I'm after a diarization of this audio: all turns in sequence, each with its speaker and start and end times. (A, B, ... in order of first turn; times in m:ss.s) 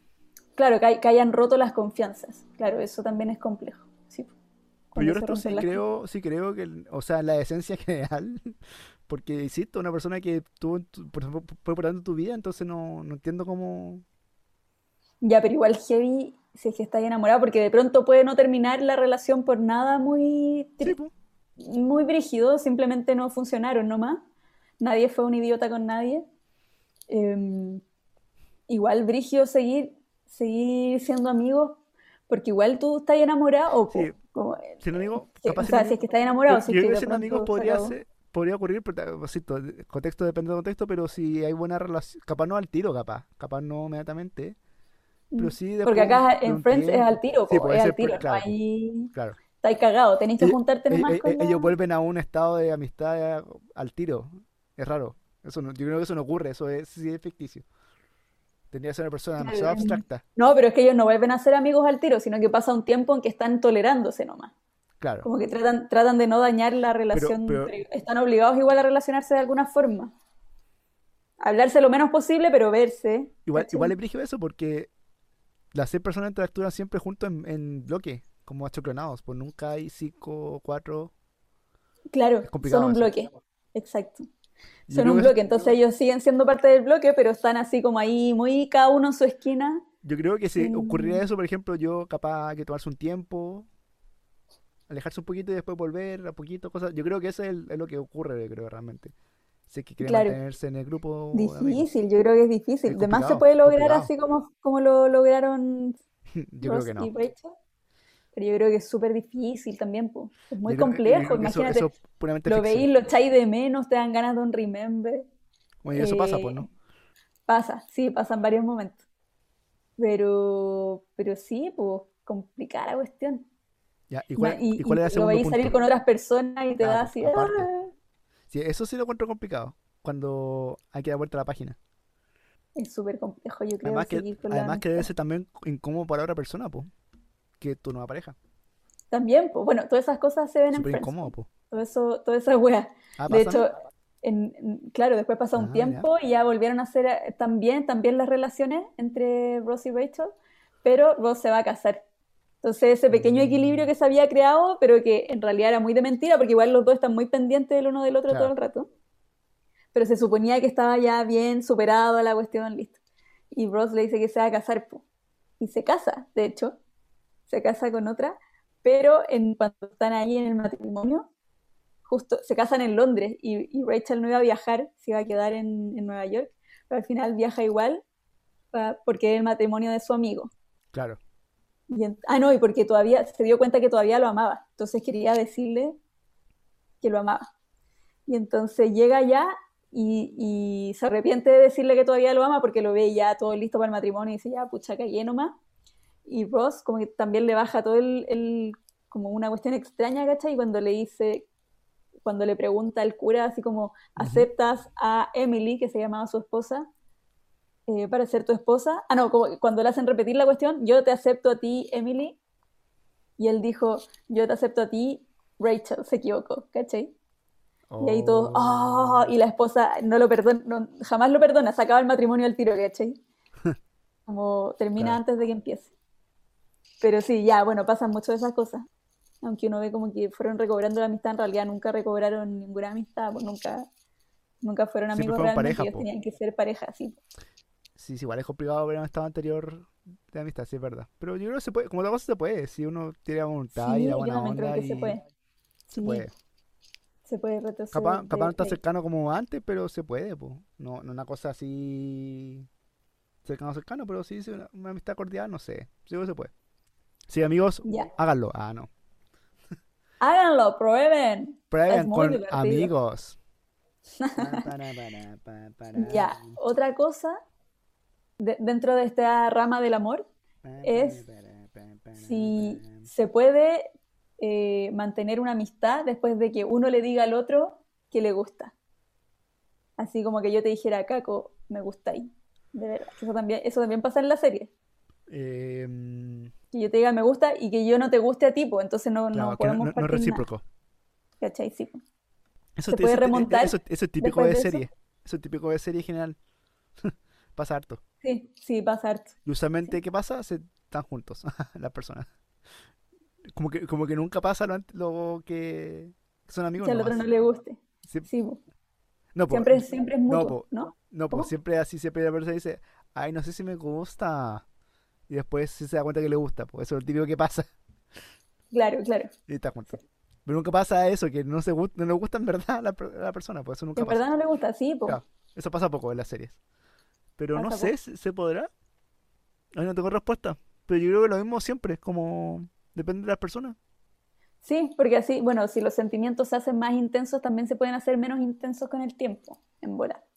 0:00.6-0:04.3 A
0:04.9-0:05.8 A
0:05.0-0:08.6 B
0:09.1-0:14.0 B
0:15.2-0:21.0 A
0:20.8-0:21.1 B
0:21.6-0:24.2 A
0:24.8-0:26.2 A
0:27.1-0:27.8 A
0:28.7-0:38.0 A
0:33.9-0:34.2 B
0:34.8-0:44.6 B
0:45.3-0:51.7 A
0:45.4-0:48.5 B
0:49.1-0:49.4 B
0:50.4-0:57.6 B
0:58.7-1:00.2 B
0:59.4-1:04.5 A
1:05.0-1:05.3 B
1:05.2-1:10.1 A
1:07.1-1:07.7 B
1:11.4-1:13.9 A
1:13.4-1:14.9 B
1:15.7-1:21.1 B
1:22.1-1:24.3 A
1:22.4-1:23.1 B
1:24.9-1:25.4 B
1:24.9-1:29.8 A
1:30.0-1:33.7 B
1:30.6-1:31.2 A
1:34.9-1:39.1 B
1:39.7-1:41.9 B
1:40.0-1:40.4 A
1:41.3-1:46.0 A
1:42.9-1:44.1 B
1:46.3-1:47.1 B
1:46.6-1:47.5 A
1:48.3-1:51.9 A
1:50.6-1:52.9 B
1:52.4-1:55.3 A
1:55.8-1:56.7 B
1:55.9-1:56.7 A
1:57.5-1:59.0 A
2:00.0-2:03.4 A
2:04.1-2:05.8 B
2:04.4-2:07.9 A
2:06.8-2:07.7 B
2:08.5-2:11.8 B
2:12.8-2:15.1 A
2:13.8-2:16.9 B
2:17.6-2:18.4 B
2:19.1-2:32.0 A
2:20.7-2:21.5 B
2:23.2-2:23.7 B
2:25.5-2:26.1 B
2:32.6-2:38.9 A
2:33.1-2:33.9 B
2:39.9-2:43.0 A
2:43.5-2:45.0 A
2:45.6-2:46.8 A
2:47.5-2:51.3 A
2:52.0-2:58.0 A
2:58.7-3:00.5 A
3:00.9-3:01.2 B
3:01.9-3:06.0 A
3:07.0-3:07.5 A
3:08.3-3:15.6 A
3:16.2-3:21.5 A
3:22.2-3:26.9 A
3:24.2-3:24.5 B
3:27.9-3:32.4 A
3:33.4-3:37.1 A
3:37.9-3:39.3 B
3:38.0-3:43.2 A
3:44.3-3:45.9 A
3:47.0-3:48.8 A
3:49.4-3:53.8 A
3:54.6-3:57.2 A
3:55.1-3:56.0 B
3:58.0-4:05.2 B
4:03.7-4:05.2 A
4:05.9-4:06.3 A
4:06.0-4:06.3 B
4:07.2-4:08.8 A
4:07.9-4:12.7 B
4:13.4-4:16.5 B
4:17.3-4:18.9 B
4:17.8-4:18.1 A
4:20.2-4:22.9 A
4:21.7-4:23.4 B
4:24.2-4:24.7 A
4:24.4-4:26.6 B
4:26.0-4:27.4 A
4:28.4-4:30.3 A
4:30.6-4:33.1 B
4:30.8-4:31.2 A
4:32.1-4:33.9 A
4:34.4-4:38.7 A
4:40.0-4:44.7 A
4:45.3-4:46.5 B
4:46.7-4:50.4 A
4:49.3-4:50.6 B
4:51.4-4:52.0 A
4:52.8-4:56.4 B
4:52.9-4:54.8 A
4:57.0-4:58.0 B
4:58.2-4:59.9 A
4:59.4-5:02.3 B
5:03.5-5:07.2 B
5:06.8-5:08.6 A
5:09.3-5:14.6 B
5:09.5-5:11.5 A
5:15.3-5:17.7 B
5:18.7-5:19.3 A
5:19.5-5:24.2 B
5:24.0-5:25.2 A
5:25.1-5:26.6 B
5:27.4-5:28.7 B
5:27.5-5:27.9 A
5:29.7-5:33.8 B
5:34.6-5:40.2 A